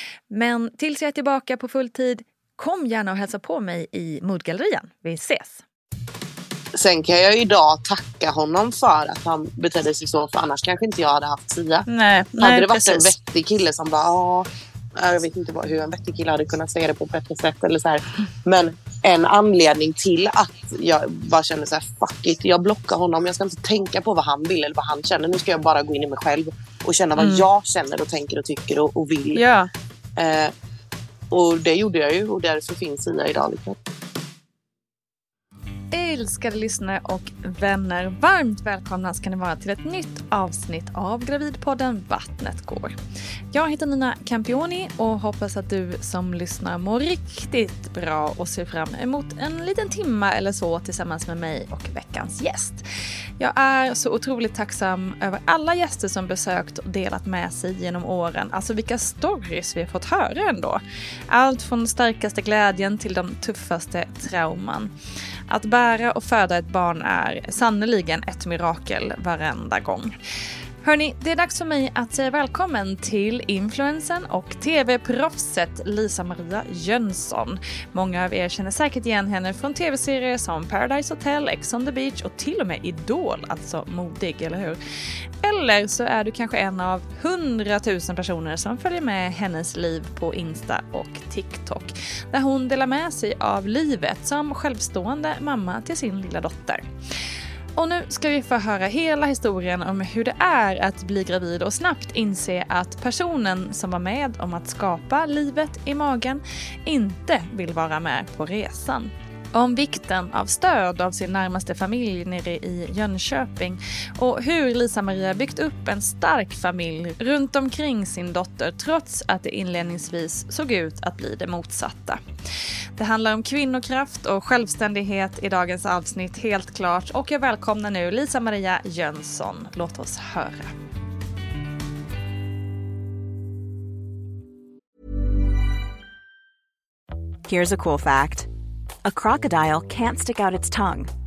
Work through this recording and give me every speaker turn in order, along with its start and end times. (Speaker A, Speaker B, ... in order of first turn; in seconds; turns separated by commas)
Speaker A: 0.3-5.6, Speaker B: 6.7-11.9, Speaker A: 11.9-13.1, Speaker B: 12.4-29.4, Speaker A: 27.2-27.4, Speaker A: 29.3-29.7, Speaker B: 30.1-30.5, Speaker B: 31.3-33.8, Speaker A: 35.9-43.0, Speaker A: 43.5-52.8, Speaker A: 53.4-64.9, Speaker A: 65.5-70.1, Speaker A: 70.8-84.8, Speaker A: 85.4-96.8, Speaker A: 97.8-122.2, Speaker A: 123.0-130.7, Speaker C: 137.4-138.5, Speaker C: 139.0-141.1